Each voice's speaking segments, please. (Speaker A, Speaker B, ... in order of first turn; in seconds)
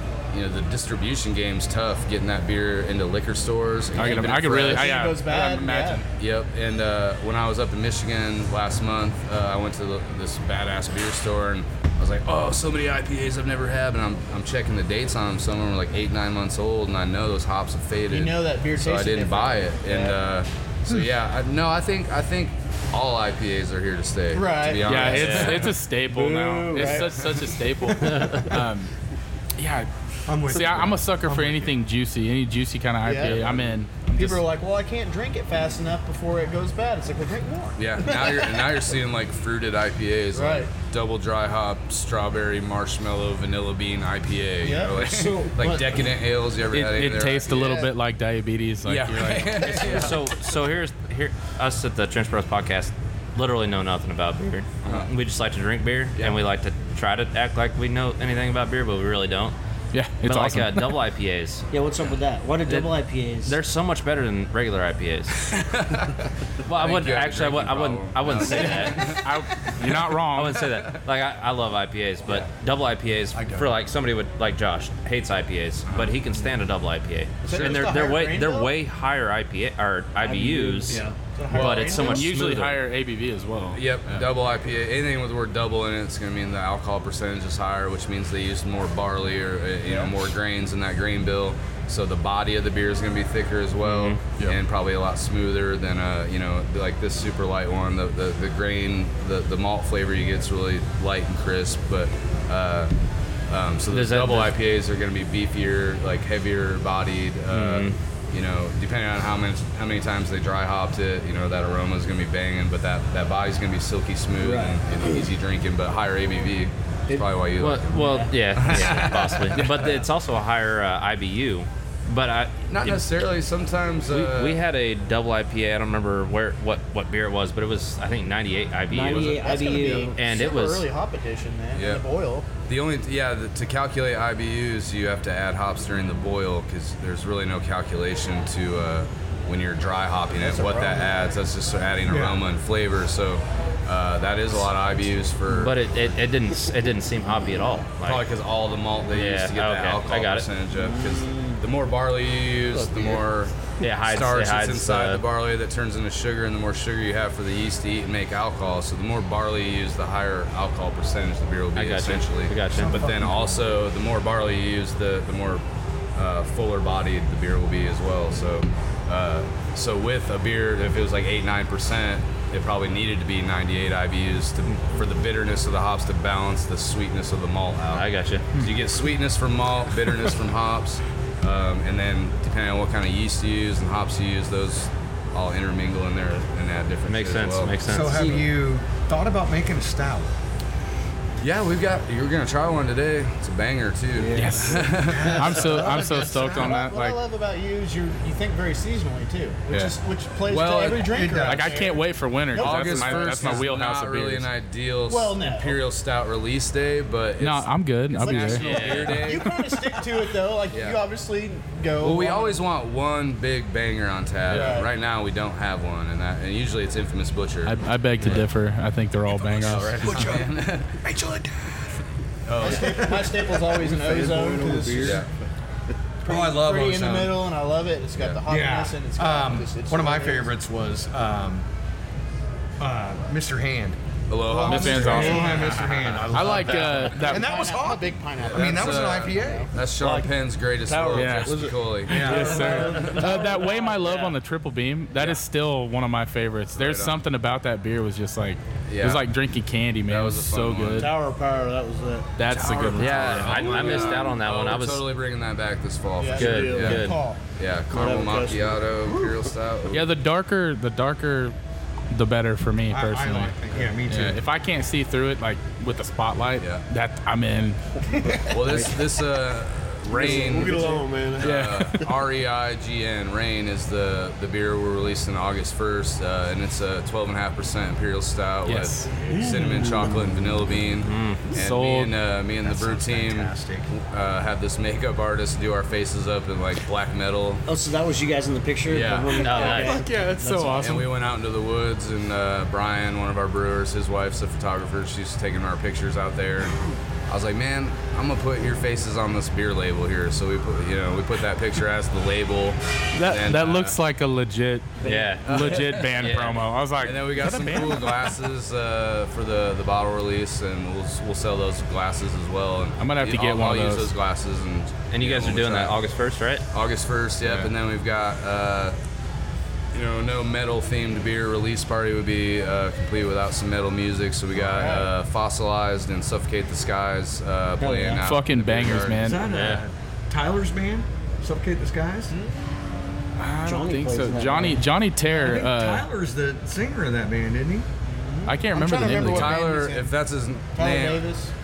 Speaker A: 0.3-5.0, 6.2-25.7, 37.8-47.7, 48.9-50.3, 54.8-55.1, 56.1-56.4, 65.5-69.3, 75.9-76.1, 77.5-78.1, 81.5-81.9, 83.7-102.9, 103.5-120.0, 122.7-124.6, 131.7-132.0, 132.7-145.9, 148.0-165.6, 166.2-187.8, 191.4-196.0, 200.5-201.1, 202.5-210.1, 210.7-211.0, 212.0-218.4, 219.4-221.8, 222.5-223.2, 225.0-225.3, 234.3-236.3, 238.4-243.2, 246.8-247.2, 248.9-249.3, 250.1-251.2, 252.5-260.1, 266.6-266.8, 268.5-287.6, 288.9-289.9, 290.7-296.8, 297.3-304.0, 305.4-316.0, 316.7-319.0, 319.9-329.4, 339.2-341.3
Speaker B: 3.9-6.0, 24.8-28.9, 29.6-34.4, 46.7-49.8, 59.9-61.0, 69.1-70.7, 81.8-84.3, 94.3-94.6, 194.3-197.2, 201.4-204.5, 207.4-209.1, 217.7-220.3, 234.6-237.5, 241.1-251.1, 252.4-254.1, 259.9-261.6, 262.1-267.8, 271.4-272.1, 278.6-279.2, 281.5-282.1, 289.4-291.1, 303.1-308.3, 313.0-314.1, 328.2-329.4, 333.4-336.1, 338.5-339.6
Speaker C: 4.0-6.0, 18.1-20.2, 24.3-25.4, 26.5-27.2, 33.0-33.5, 34.1-38.7, 40.3-40.7, 44.6-46.1, 47.5-47.9, 77.4-78.7, 80.9-82.2, 89.8-90.1, 129.3-132.5, 140.4-141.2, 196.5-203.7, 205.1-205.8, 208.2-212.6, 214.5-214.9, 222.6-225.2, 226.2-230.5, 235.1-235.8, 237.1-239.7, 242.7-243.5, 256.2-257.4, 270.3-271.0, 324.7-325.1, 332.3-332.7, 338.1-340.2, 340.7-341.5
Speaker D: 25.1-25.7, 49.6-59.5, 60.2-61.6, 62.7-65.3, 66.7-69.2, 69.8-82.8, 93.8-94.3, 103.9-104.6, 107.5-108.0, 117.6-123.3, 124.1-129.6, 130.1-130.9, 145.5-148.3, 149.1-150.5, 153.8-155.2, 161.8-163.0, 177.9-178.6, 187.1-188.4, 208.4-209.3, 252.9-255.1, 256.4-257.2, 280.9-281.5, 289.4-290.0, 305.0-305.6, 306.2-306.7, 315.1-316.7, 329.4-329.8
Speaker E: 28.1-28.5, 30.3-31.8, 73.3-73.8, 142.1-142.4, 162.7-163.6, 187.8-190.3, 195.1-196.9, 201.1-201.8, 219.7-220.5, 222.8-223.1, 226.2-227.4, 228.5-231.7, 232.8-234.0, 234.5-239.7, 242.1-242.9, 262.9-264.4, 268.2-268.5, 282.6-283.9, 329.2-332.4, 335.3-337.9
Speaker F: 45.0-45.8, 61.7-63.6, 80.2-81.2, 114.4-115.2, 117.9-118.3, 128.9-130.2, 188.1-188.4, 194.2-194.9, 287.7-290.9, 327.8-328.2, 333.6-334.9
Speaker G: 223.7-225.5, 240.0-240.3, 240.8-244.3, 251.0-252.6, 256.4-257.1, 257.9-259.4, 270.1-272.1, 279.3-280.0